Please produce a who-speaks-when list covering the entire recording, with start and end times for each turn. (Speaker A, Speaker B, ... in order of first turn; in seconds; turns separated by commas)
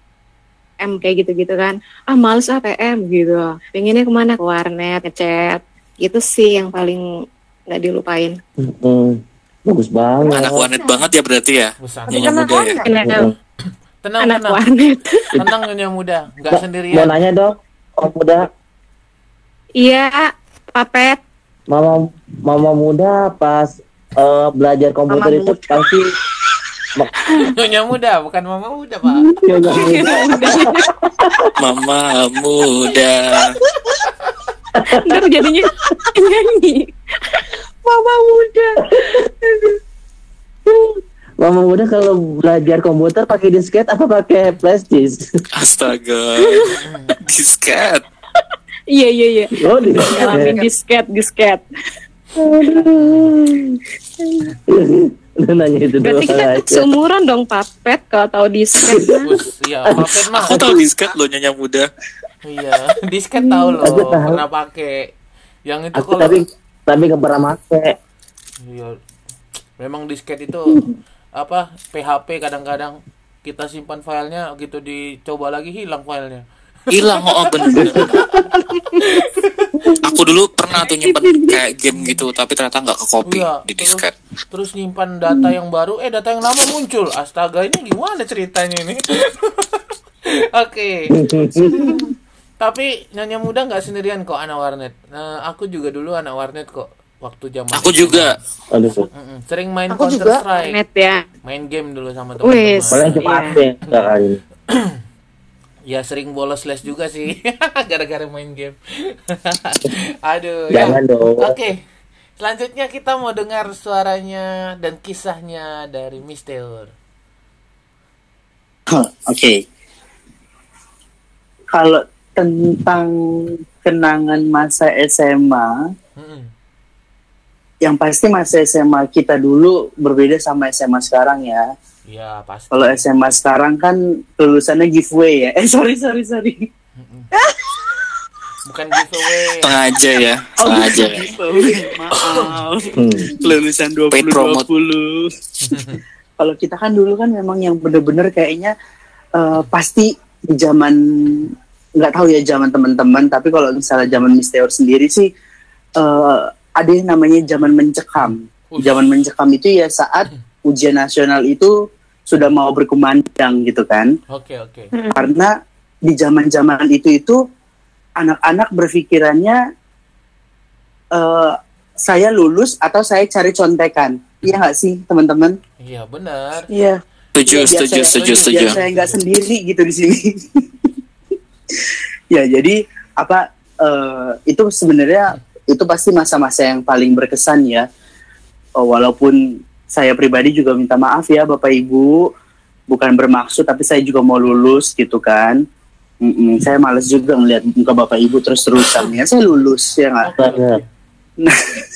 Speaker A: 0.8-7.0, Speaker A: 7.7-8.3, Speaker B: 8.6-10.7, Speaker A: 10.2-10.9, Speaker C: 10.3-12.8, Speaker D: 11.8-12.4, Speaker E: 12.2-12.9, Speaker A: 12.2-13.3, Speaker B: 13.1-13.3, Speaker D: 14.0-14.6, Speaker A: 14.2-15.3, Speaker D: 15.4-17.1, Speaker B: 16.5-18.5, Speaker A: 19.8-21.2, Speaker B: 21.7-26.1, Speaker E: 25.1-26.0, Speaker D: 27.4-29.3, Speaker B: 29.4-31.5, Speaker A: 29.7-30.9, Speaker E: 29.7-30.6, Speaker C: 31.6-33.5, Speaker B: 34.7-35.3, Speaker A: 35.0-37.4, Speaker E: 37.8-39.8, Speaker B: 39.0-39.2, Speaker B: 40.7-45.3, Speaker C: 45.6-48.0, Speaker D: 46.7-47.3, Speaker A: 48.9-51.6, Speaker B: 49.6-50.6, Speaker E: 50.2-50.6, Speaker E: 52.4-52.8, Speaker D: 52.7-53.3, Speaker A: 52.8-53.3, Speaker B: 54.7-56.9, Speaker A: 56.0-59.2, Speaker B: 58.8-59.3, Speaker D: 59.2-60.5, Speaker B: 59.9-60.7, Speaker C: 60.4-61.9, Speaker D: 62.4-65.1, Speaker B: 63.8-64.4, Speaker D: 65.7-66.4, Speaker B: 65.9-67.9, Speaker D: 68.6-69.0, Speaker D: 69.8-70.8, Speaker D: 71.4-76.4, Speaker C: 76.9-78.2, Speaker D: 77.0-79.9, Speaker C: 80.0-84.1, Speaker D: 81.9-82.2, Speaker D: 83.3-89.8, Speaker D: 90.5-91.1, Speaker B: 91.1-92.0, Speaker D: 92.6-98.3, Speaker C: 97.7-98.3, Speaker B: 98.7-99.1, Speaker D: 99.1-100.8, Speaker E: 99.9-100.4, Speaker A: 100.5-101.2, Speaker D: 101.4-104.1, Speaker A: 102.4-103.6, Speaker B: 102.9-104.4, Speaker D: 104.7-105.0, Speaker D: 105.9-108.8, Speaker D: 109.3-111.8, Speaker B: 110.7-111.6, Speaker D: 112.4-116.9, Speaker F: 118.9-119.6, Speaker F: 121.7-125.8, Speaker D: 126.2-126.5, Speaker F: 127.8-131.6, Speaker D: 132.1-133.0, Speaker F: 132.7-136.7, Speaker D: 137.0-137.3, Speaker E: 137.3-137.7, Speaker D: 138.6-139.7, Speaker C: 139.6-141.3, Speaker F: 140.6-145.3, Speaker D: 142.2-142.6, Speaker B: 142.9-143.4, Speaker C: 144.1-144.7, Speaker D: 145.6-146.0, Speaker F: 146.4-148.7, Speaker F: 149.4-155.3, Speaker F: 156.0-161.7, Speaker D: 158.2-159.0, Speaker F: 162.3-164.1, Speaker D: 164.3-164.9, Speaker E: 164.9-165.3, Speaker F: 165.1-165.5, Speaker F: 166.1-167.4, Speaker F: 168.2-169.6, Speaker F: 171.1-175.6, Speaker D: 175.8-176.7, Speaker F: 176.7-180.9, Speaker C: 177.3-178.8, Speaker D: 178.2-179.2, Speaker F: 181.7-187.9, Speaker F: 188.8-192.3, Speaker F: 192.9-195.6, Speaker F: 196.2-200.3, Speaker D: 200.2-200.9, Speaker B: 200.4-200.8, Speaker F: 201.4-201.8